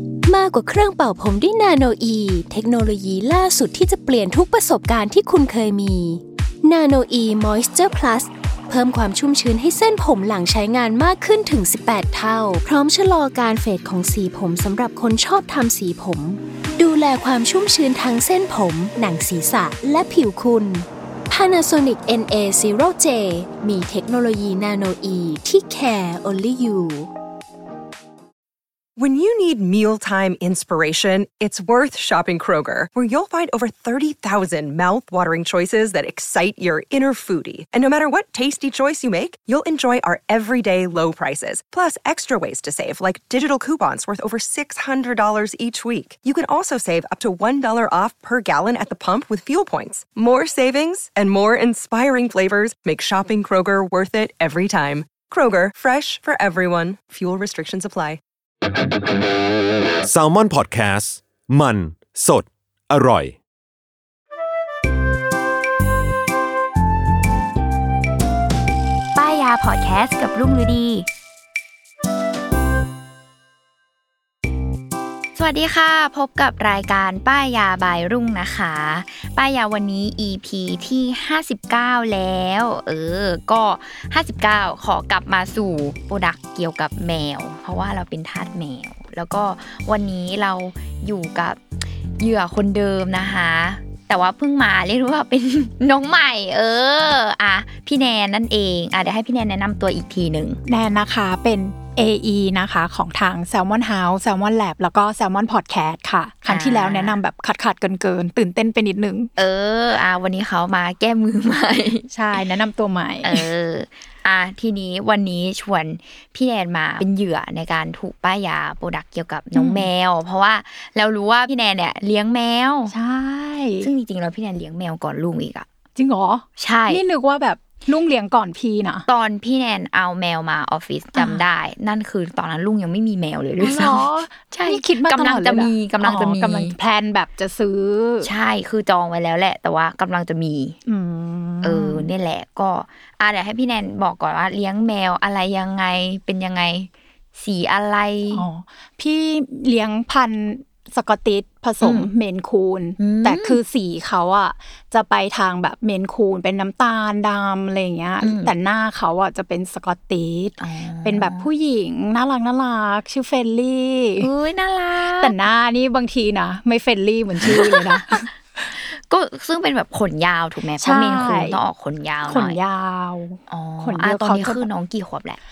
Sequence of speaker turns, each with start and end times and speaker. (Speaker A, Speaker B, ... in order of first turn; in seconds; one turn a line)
Speaker A: 0.3-27.1
Speaker B: 29.0-58.2
Speaker C: 60.0-63.4
Speaker D: 69.2-71.1
Speaker D: 75.4-91.6
Speaker D: 92.2-100.6
Speaker E: 100.7-109.3
Speaker D: 106.5-107.2
Speaker D: 109.4-112.1
Speaker E: 112.1-113.5
Speaker D: 113.2-122.9
Speaker E: 119.5-119.9
Speaker E: 122.9-123.9
Speaker D: 123.8-125.7
Speaker E: 126.0-129.1
Speaker D: 126.6-127.0
Speaker D: 129.1-136.8
Speaker E: 131.2-131.4
Speaker E: 133.6-138.3
Speaker D: 138.2-140.8
Speaker E: 140.9-142.1
Speaker D: 141.6-148.4
Speaker E: 148.3-164.3
Speaker D: 151.8-152.1
Speaker D: 153.0-153.6
Speaker D: 158.2-158.5
Speaker D: 160.6-161.5
Speaker D: 164.2-165.4
Speaker E: 165.1-168.3
Speaker D: 167.4-172.6
Speaker E: 170.8-171.6
Speaker E: 172.3-174.7
Speaker D: 173.5-175.4